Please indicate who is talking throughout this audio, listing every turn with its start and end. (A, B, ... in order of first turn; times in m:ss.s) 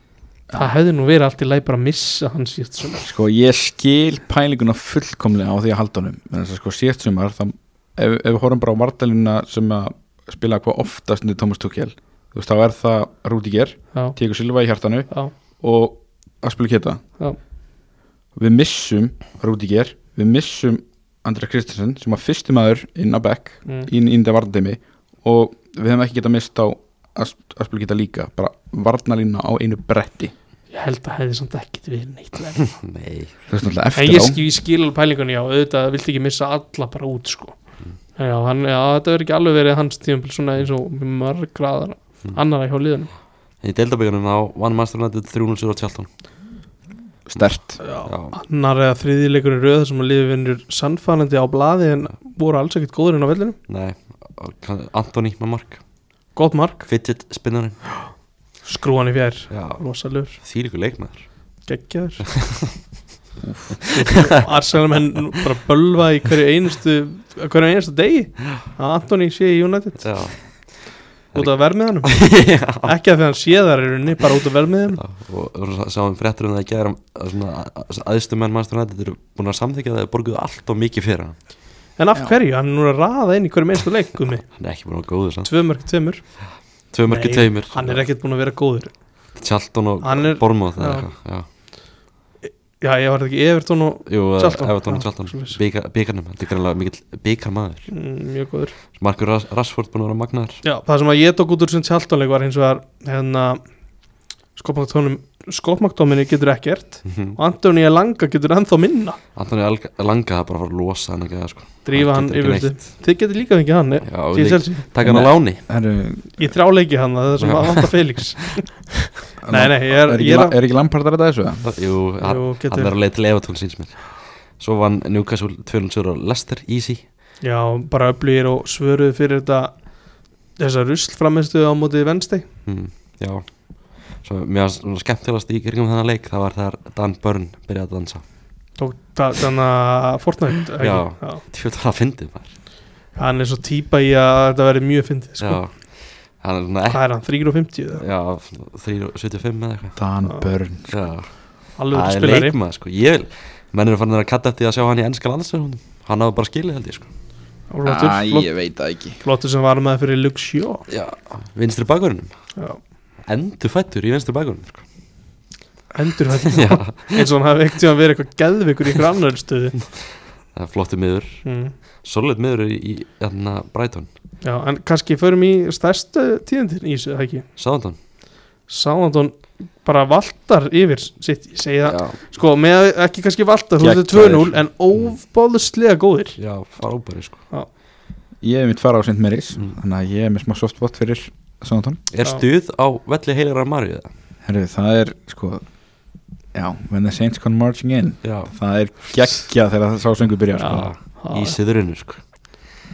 0:00.5-0:03.0 A
0:03.0-0:17.0 B
0:18.3-0:30.3 B
0:30.7-0:32.7 A
0:32.6-0:33.3 C
0:33.5-0:34.4 B
0:34.0-0:37.6 A
0:38.2-0:43.1 A
0:43.6-0:46.1 C
0:47.3-0:47.8 B
0:47.8-0:53.6 A
0:48.0-0:48.4 C
0:53.7-0:55.8 C
0:56.3-0:56.9 A
0:56.9-0:57.8 C
0:58.6-1:00.4 A
0:59.5-1:01.2 C
1:01.6-1:02.3 A
1:02.3-1:02.7 C
1:03.4-1:03.8 B
1:03.8-1:04.3 C
1:03.9-1:10.1 A
1:10.0-1:12.9 C
1:11.3-1:15.0 A
1:15.0-1:21.4 C
1:22.0-1:24.4 A
1:24.5-1:25.5 C
1:25.4-1:26.2 A
1:26.9-1:28.0 C
1:27.1-1:28.9 A
1:29.4-1:31.5 C
1:30.0-1:31.1 A
1:32.8-1:35.6 A
1:34.1-1:37.9 C
1:37.9-1:38.7 A
1:39.0-1:40.6 C
1:40.6-1:43.6 A
1:44.6-1:49.2 A
1:47.0-1:47.4 C
1:49.3-1:52.8 C
1:51.8-1:54.8 A
1:54.0-1:55.6 C
1:55.0-1:56.5 B
1:56.4-2:00.6 A
1:57.4-1:58.0 C
1:59.4-2:01.6 B
2:01.6-2:07.0 C
2:02.2-2:02.9 A
2:07.4-2:09.8 A
2:10.6-2:12.4 A
2:12.6-2:18.2 C
2:18.8-2:21.4 A
2:20.8-2:22.5 C
2:23.2-2:25.6 A
2:25.4-2:27.0 C
2:26.9-2:28.0 A
2:28.0-2:30.0 C
2:30.0-2:31.0 B
2:30.9-2:31.3 C
2:31.8-2:32.6 A
2:31.9-2:37.1 C
2:37.7-2:38.5 A
2:37.8-2:39.2 B
2:39.2-2:40.8 A
2:40.9-2:42.3 C
2:43.2-2:44.8 C
2:45.9-2:49.8 A
2:46.5-2:47.2 C
2:50.5-2:51.4 C
2:51.4-2:51.7 A
2:52.0-2:54.1 C
2:54.4-2:57.4 A
2:57.6-2:58.0 C
2:58.7-3:06.4 A
3:01.8-3:02.2 C
3:03.8-3:04.6 B
3:06.4-3:07.4 C
3:08.4-3:12.0 B
3:12.1-3:14.1 C
3:14.4-3:15.6 B
3:16.5-3:20.9 B
3:18.2-3:18.5 C
3:20.5-3:21.6 A
3:20.6-3:22.2 C